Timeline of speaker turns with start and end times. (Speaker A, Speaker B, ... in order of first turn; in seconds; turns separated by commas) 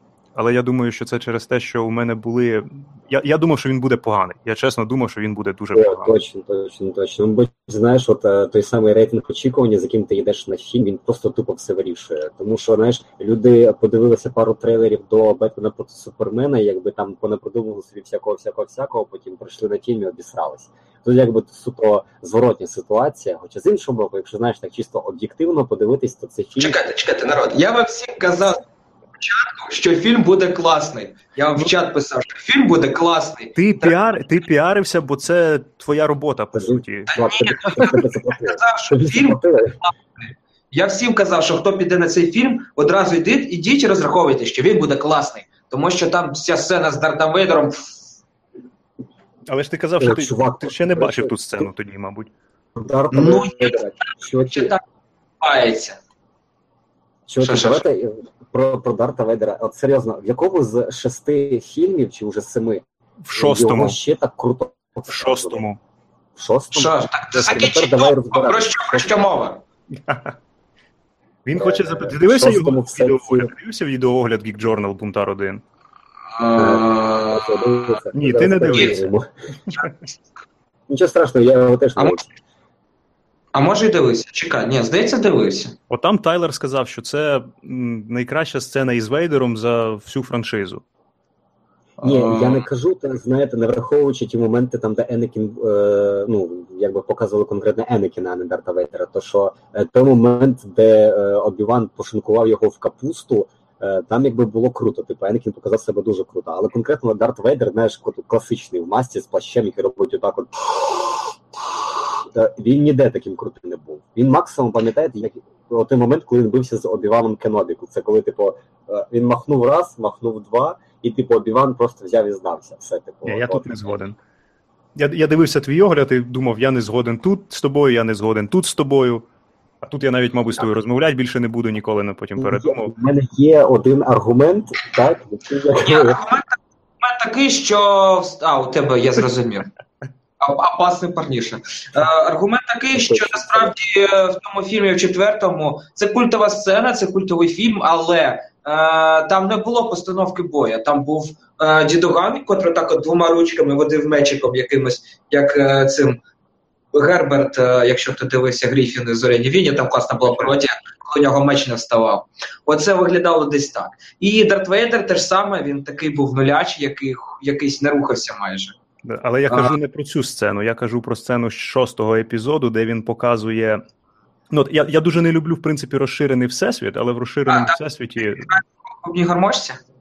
Speaker A: 0.3-6.1, Speaker B: 5.7-26.8, Speaker C: 26.6-28.6, Speaker C: 29.2-34.0, Speaker A: 33.6-37.1, Speaker B: 36.5-39.8, Speaker C: 37.1-48.0, Speaker A: 49.5-52.3, Speaker B: 50.0-51.7, Speaker B: 52.8-54.7, Speaker C: 53.1-54.8, Speaker C: 55.4-56.0, Speaker B: 57.3-65.6, Speaker C: 57.4-57.9, Speaker A: 63.2-64.0, Speaker A: 65.1-65.8, Speaker B: 66.4-69.1, Speaker C: 66.7-69.6, Speaker A: 69.9-70.4, Speaker A: 71.5-75.6, Speaker B: 71.5-73.5, Speaker C: 76.3-77.9, Speaker B: 76.5-79.3, Speaker A: 78.1-79.1, Speaker C: 78.7-79.0, Speaker B: 80.9-82.2, Speaker C: 82.0-82.3, Speaker C: 83.5-85.8, Speaker A: 85.9-90.8, Speaker C: 92.0-92.7, Speaker B: 92.0-111.3, Speaker B: 112.2-123.7, Speaker A: 123.3-124.2, Speaker A: 125.0-129.3, Speaker A: 129.8-132.9, Speaker B: 132.4-136.2, Speaker C: 135.8-139.7, Speaker C: 140.4-156.2, Speaker B: 142.9-143.8, Speaker C: 156.9-168.8, Speaker A: 169.1-173.8, Speaker C: 169.5-169.8, Speaker A: 174.5-178.5, Speaker C: 177.5-179.8